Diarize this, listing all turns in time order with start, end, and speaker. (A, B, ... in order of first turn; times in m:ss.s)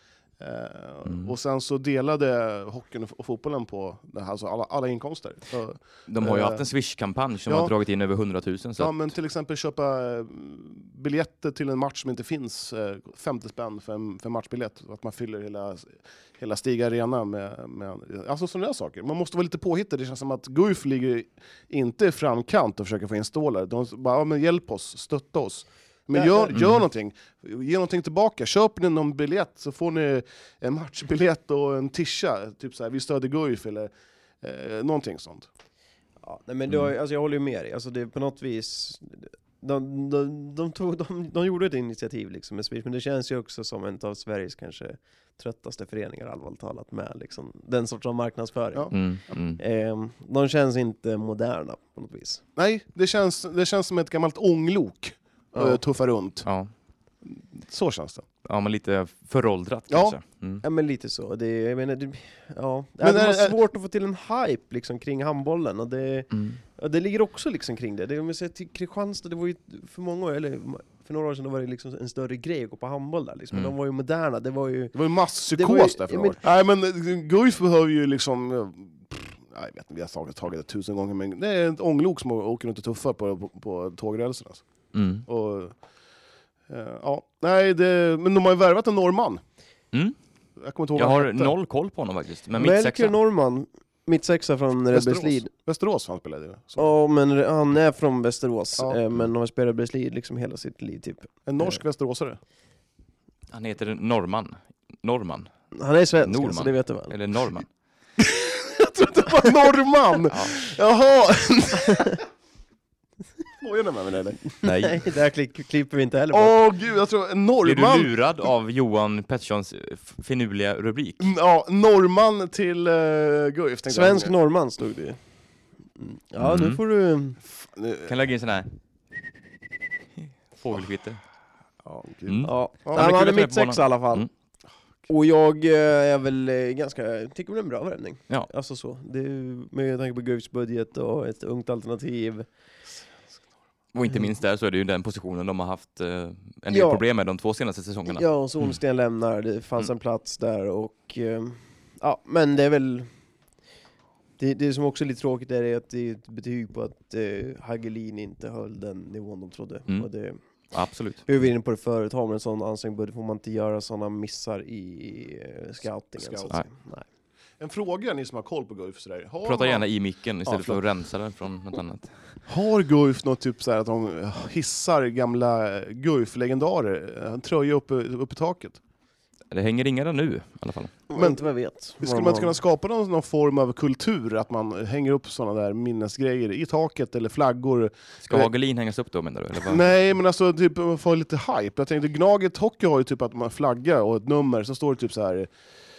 0:00.4-0:06.6 A
0:01.0-0:01.3 B
0:06.1-0:09.1 B
0:07.5-0:07.7 A
0:08.8-0:35.5 A
0:26.1-0:26.6 C
0:26.5-0:26.8 B
0:36.2-0:48.9 C
0:48.9-0:49.6 B
0:49.6-0:52.4 C
0:52.6-0:56.5 A
0:55.5-0:55.8 C
0:56.4-0:56.7 B
0:57.2-0:58.2 A
0:58.4-1:00.6 B
0:59.9-1:00.2 A
1:00.6-1:15.0 C
1:03.0-1:03.6 A
1:06.3-1:06.6 B
1:14.9-1:24.6 A
1:15.5-1:16.4 C
1:24.9-1:25.2 B
1:25.2-1:25.7 A
1:26.7-1:29.4 A
1:30.6-1:31.5 A
1:31.0-1:33.1 B
1:32.6-1:35.5 C
1:34.9-1:36.9 A
1:36.8-1:41.8 C
1:41.4-1:42.4 A
1:43.5-1:45.5 B
1:45.7-1:47.2 C
1:46.2-1:47.7 B
1:48.2-1:52.2 A
1:53.6-1:54.4 A
1:54.6-1:55.0 B
1:54.6-1:56.6 C
1:56.3-1:58.1 A
1:57.6-2:01.3 B
2:01.2-2:04.3 A
2:03.9-2:05.2 C
2:06.0-2:07.4 C
2:06.4-2:06.8 B
2:07.5-2:08.1 A
2:08.0-2:08.7 B
2:10.2-2:11.2 B
2:11.8-2:13.1 A
2:12.2-2:14.3 B
2:12.4-2:14.3 C
2:15.1-2:22.5 C
2:23.9-2:28.7 B
2:26.7-2:27.0 C
2:28.1-2:33.1 C
2:34.4-2:40.4 C
2:40.7-2:41.2 B
2:41.2-2:47.0 C
2:46.2-2:46.5 A
2:47.6-2:49.8 A
2:49.4-2:52.1 B
2:50.4-2:50.8 A
2:52.5-2:58.8 A
2:59.5-3:00.9 B
3:01.1-3:02.6 C
3:01.1-3:01.4 A
3:02.0-3:08.5 A
3:08.2-3:09.8 B
3:09.6-3:15.5 A